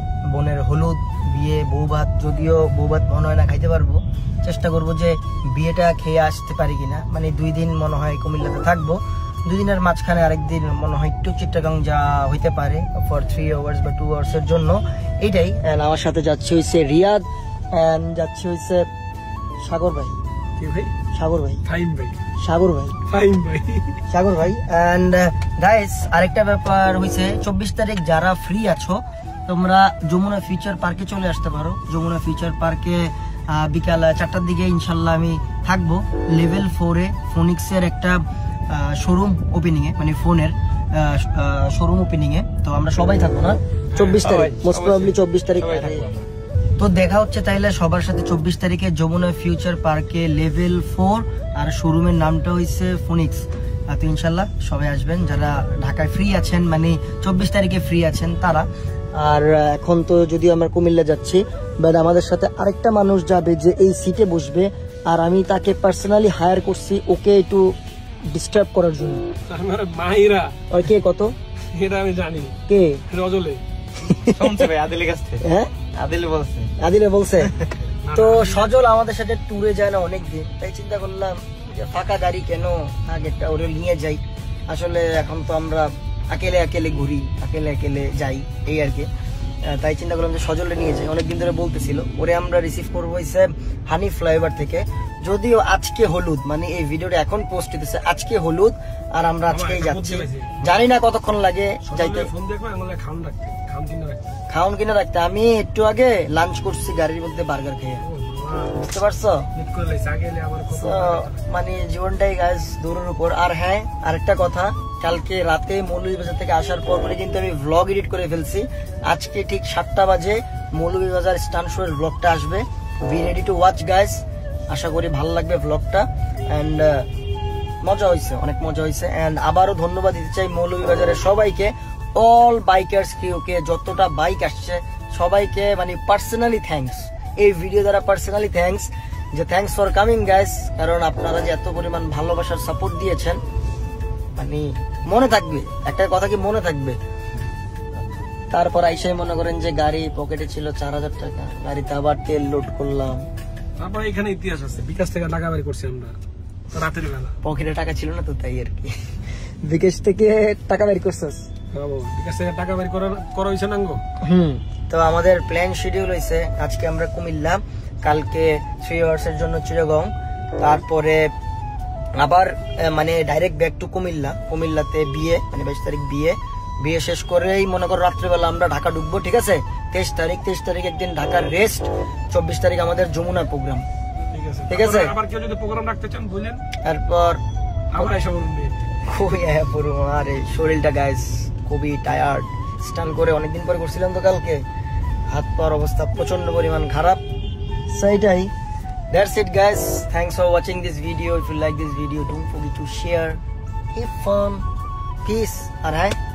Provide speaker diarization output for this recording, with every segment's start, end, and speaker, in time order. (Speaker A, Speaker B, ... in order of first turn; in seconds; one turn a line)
Speaker A: 0.3-18.9
Speaker A: 19.6-20.2
Speaker B: 20.6-20.9
Speaker A: 21.1-21.6
Speaker B: 21.7-22.2
Speaker A: 22.4-23.0
Speaker B: 23.1-24.0
Speaker A: 24.1-46.1
Speaker B: 44.0-44.3
Speaker C: 44.2-46.3
Speaker A: 46.8-67.7
Speaker A: 68.3-69.2
Speaker B: 69.5-70.6
Speaker A: 70.7-71.3
Speaker B: 71.7-72.6
Speaker A: 72.7-73.0
Speaker B: 73.1-73.6
Speaker A: 74.0-74.7
Speaker C: 74.4-76.7
Speaker A: 75.4-75.8
Speaker A: 76.8-77.5
Speaker B: 78.0-78.7
Speaker A: 78.1-89.1
Speaker A: 89.7-102.3
Speaker B: 99.5-100.8
Speaker B: 101.8-104.3
Speaker A: 104.5-108.0
Speaker B: 108.0-108.8
Speaker A: 108.8-109.5
Speaker B: 109.5-111.5
Speaker A: 110.7-127.1
Speaker A: 127.8-143.4
Speaker A: 144.4-147.0
Speaker A: 148.5-153.2
Speaker B: 153.8-156.2
Speaker B: 156.7-157.4
Speaker A: 157.4-158.9
Speaker A: 159.6-161.5
Speaker B: 161.7-164.0
Speaker A: 164.2-171.3
Speaker A: 172.2-183.9
Speaker B: 184.3-186.6
Speaker A: 184.7-185.1
Speaker A: 186.8-187.4
Speaker B: 187.9-188.8
Speaker A: 189.0-194.6
Speaker A: 195.3-197.2
Speaker A: 197.9-198.5
Speaker A: 199.1-203.4
Speaker A: 203.9-204.7
Speaker A: 205.2-206.2